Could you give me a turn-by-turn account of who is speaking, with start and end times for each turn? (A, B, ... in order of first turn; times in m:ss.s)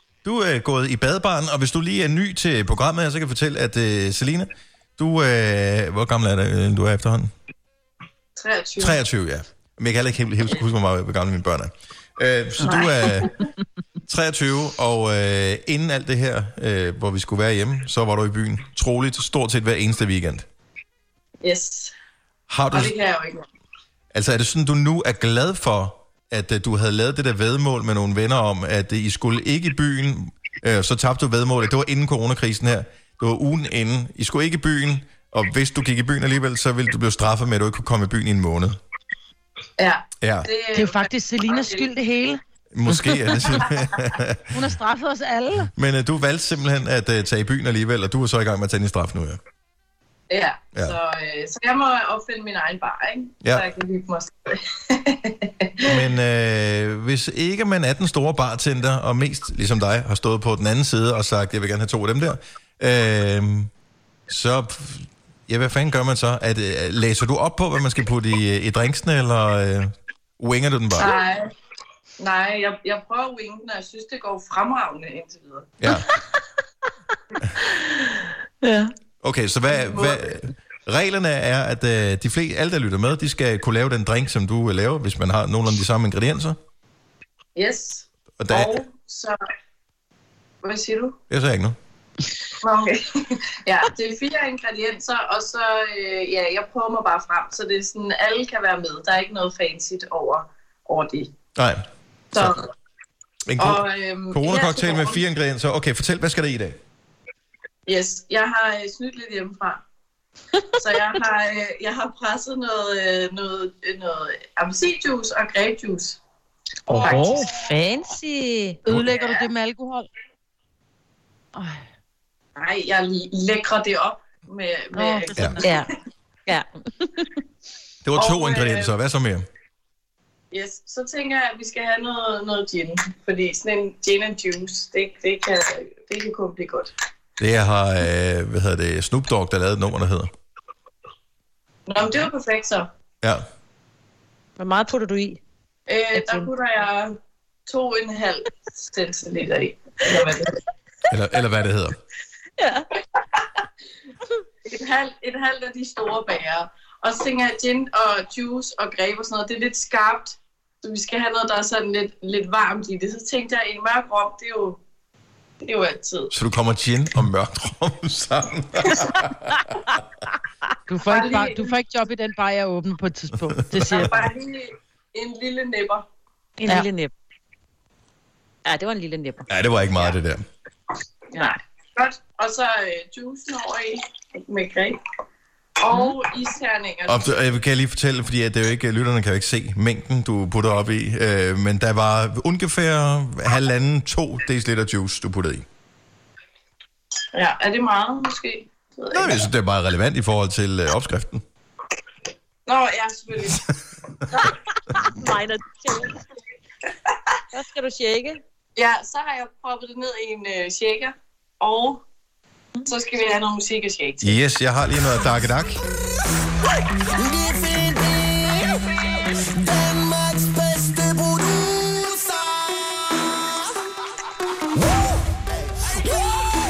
0:00.2-0:07.3 A
0:08.4-0:09.0 B
0:08.8-0:13.3 A
0:12.6-0:13.4 B
0:14.1-0:20.4 A
0:21.4-0:21.9 B
0:22.5-0:22.9 A
0:22.7-0:23.4 B
0:24.1-0:38.8 A
0:39.8-0:41.9 B
0:40.2-0:40.5 A
0:40.7-0:43.4 C
0:42.7-0:44.5 A
0:44.5-0:45.7 C
0:45.7-0:49.4 A
0:50.3-0:56.0 B
0:55.8-1:03.7 A
1:04.3-1:11.1 A
1:11.0-1:11.5 B
1:12.2-1:15.7 B
1:15.8-1:16.1 A
1:17.7-1:18.9 D
1:19.2-1:26.6 A
1:19.7-1:20.3 B
1:27.6-1:29.4 B
1:28.4-1:28.8 A
1:30.6-1:31.2 B
1:31.3-1:31.8 A
1:32.6-1:41.3 B
1:41.6-1:42.6 A
1:42.3-1:42.7 B
1:43.5-1:46.8 A
1:43.6-1:45.2 B
1:47.8-1:49.8 B
1:50.8-1:56.2 B
1:56.9-1:57.4 C
1:56.9-1:58.8 D
1:57.0-1:57.4 B
1:58.8-2:00.1 C
1:59.1-1:59.4 B
2:01.6-2:01.8 C
2:02.6-2:05.8 B
2:05.0-2:05.7 C
2:05.6-2:05.9 D
2:06.4-2:07.3 D
2:08.0-2:09.4 A
2:08.1-2:08.9 B
2:10.5-2:16.9 B
2:17.4-2:20.3 A
2:21.9-2:22.9 B
2:24.6-2:25.4 D
2:25.9-2:30.6 B
2:26.1-2:26.5 D
2:31.1-2:32.0 A
2:32.6-2:32.9 D
2:34.6-2:44.8 B
2:45.6-2:46.3 B
2:46.3-2:49.5 A
2:50.9-2:54.2 C
2:51.1-2:51.7 B
2:53.8-2:56.0 B
2:56.6-2:57.1 D
2:58.6-2:59.4 D
2:59.5-3:00.4 A
3:01.4-3:05.0 B
3:05.8-3:07.3 B
3:07.1-3:15.6 A
3:17.3-3:19.5 B
3:19.1-3:21.4 A
3:22.6-3:23.6 B
3:24.3-3:26.2 D
3:27.5-3:28.4 D
3:28.8-3:32.0 B
3:32.8-3:34.4 B
3:34.2-3:35.8 A
3:37.2-3:38.5 E
3:39.7-3:42.2 E